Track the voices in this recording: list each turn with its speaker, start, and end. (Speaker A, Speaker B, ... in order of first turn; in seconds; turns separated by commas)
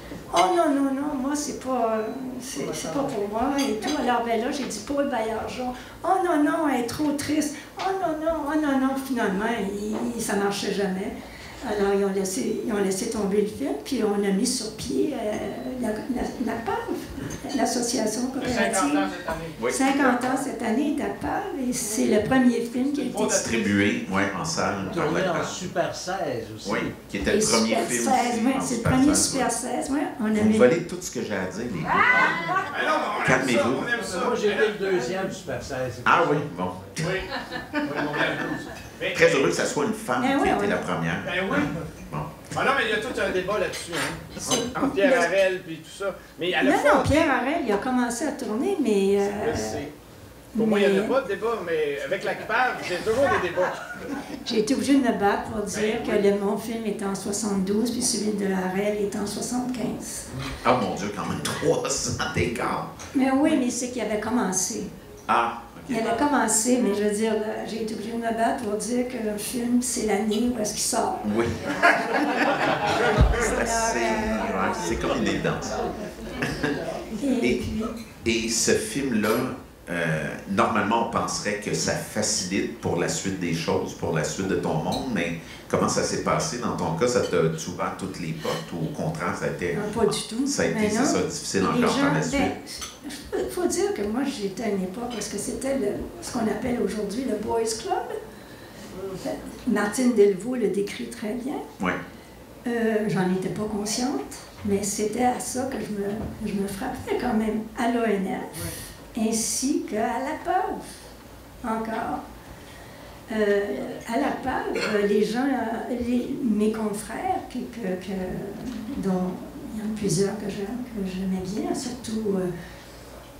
Speaker A: 0.3-19.1, Speaker B: 18.4-20.4, Speaker C: 19.6-20.3, Speaker A: 19.7-23.5, Speaker B: 23.0-24.0, Speaker C: 23.3-25.6, Speaker D: 24.8-26.9, Speaker C: 26.6-29.5, Speaker A: 27.3-30.7, Speaker C: 30.3-32.6, Speaker B: 32.7-35.3, Speaker C: 33.2-33.9, Speaker D: 34.0-36.5, Speaker C: 36.0-37.2, Speaker B: 37.0-39.7, Speaker C: 39.1-42.3, Speaker A: 40.2-40.9, Speaker B: 41.2-41.8, Speaker B: 42.5-47.3, Speaker A: 44.5-45.3, Speaker A: 46.6-49.8, Speaker B: 49.2-49.9, Speaker A: 50.5-51.1, Speaker B: 50.6-53.8, Speaker A: 54.4-60.2, Speaker B: 55.7-56.3, Speaker C: 60.6-62.9, Speaker A: 63.1-64.9, Speaker C: 65.3-66.2, Speaker A: 65.9-71.2, Speaker C: 71.2-72.7, Speaker A: 73.2-74.7, Speaker C: 73.3-75.8, Speaker C: 76.4-76.7, Speaker A: 77.2-77.9, Speaker C: 77.4-77.7, Speaker C: 78.2-92.5, Speaker A: 89.8-98.1, Speaker A: 99.1-101.6, Speaker A: 102.7-110.9, Speaker A: 111.6-112.2, Speaker A: 113.3-122.5